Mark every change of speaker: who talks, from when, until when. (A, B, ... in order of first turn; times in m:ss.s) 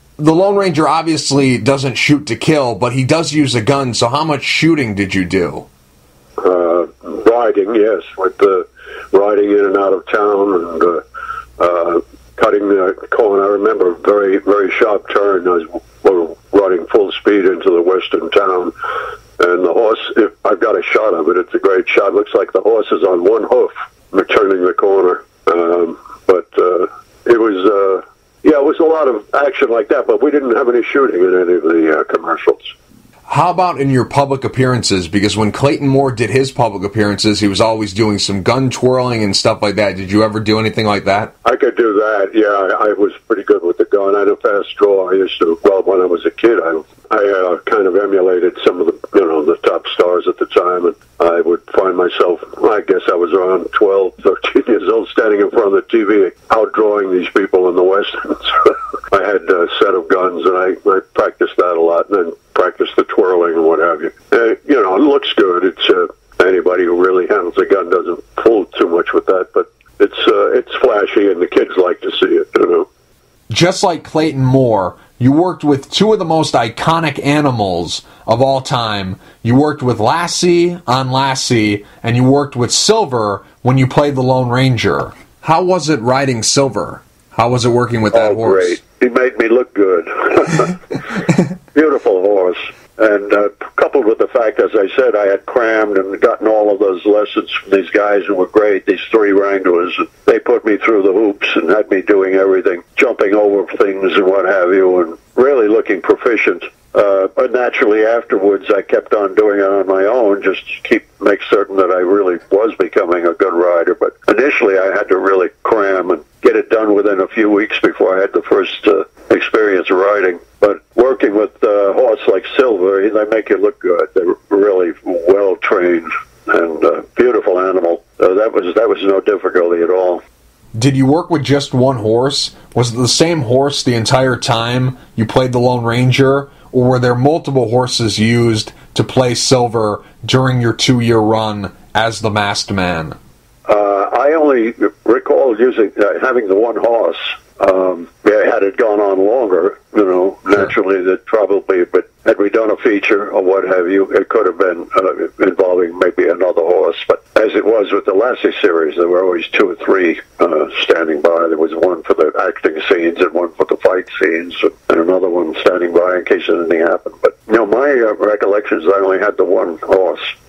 0:00.2-0:05.6 A
0:06.4-0:11.0 B
0:11.6-0:18.7 B
0:19.4-0:32.7 B
0:33.3-0:41.3 A
0:41.4-1:12.9 B
1:13.5-1:28.8 A
1:28.1-1:31.0 B
1:31.7-2:10.2 B
2:10.7-2:23.2 A
2:23.7-2:50.3 B